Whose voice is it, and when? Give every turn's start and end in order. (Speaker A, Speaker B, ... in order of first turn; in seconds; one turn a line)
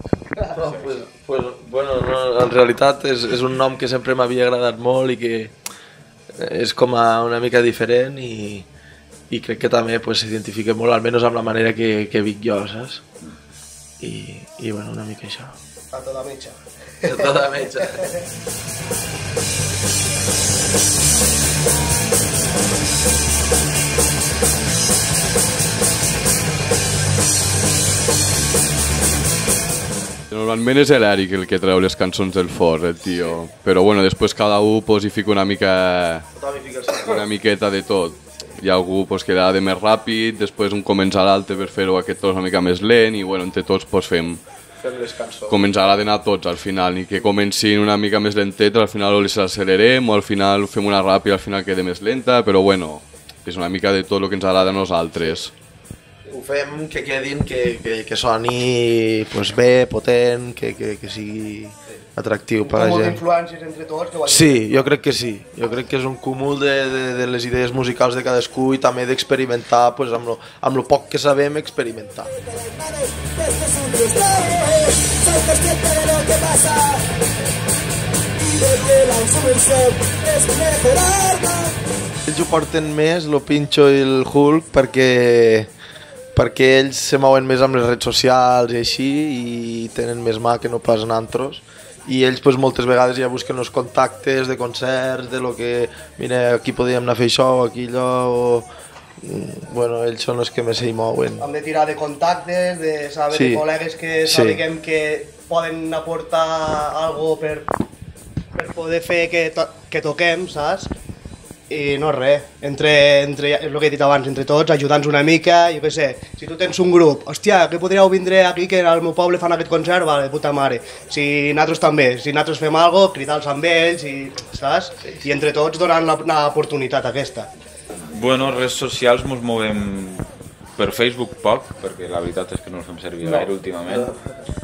Speaker A: 0.4-5.5
Speaker B: 0.7-1.0
Speaker A: 6.3-8.7
Speaker A: 9.3-13.0
Speaker A: 14.0-15.6
Speaker C: 15.9-18.2
Speaker A: 17.0-18.1
Speaker D: 30.3-36.2
Speaker A: 33.1-33.4
Speaker A: 36.3-37.3
Speaker D: 37.0-44.4
Speaker A: 44.8-45.6
Speaker D: 45.5-55.5
Speaker A: 56.3-63.2
Speaker C: 62.6-64.9
Speaker A: 64.2-72.3
Speaker E: 72.3-77.1
Speaker E: 78.4-81.8
Speaker A: 82.2-85.7
Speaker A: 86.3-101.4
Speaker C: 101.4-107.7
Speaker A: 103.3-103.6
Speaker A: 104.2-104.6
Speaker C: 108.5-110.9
Speaker C: 111.7-127.5
Speaker B: 128.0-134.1
Speaker A: 133.9-134.2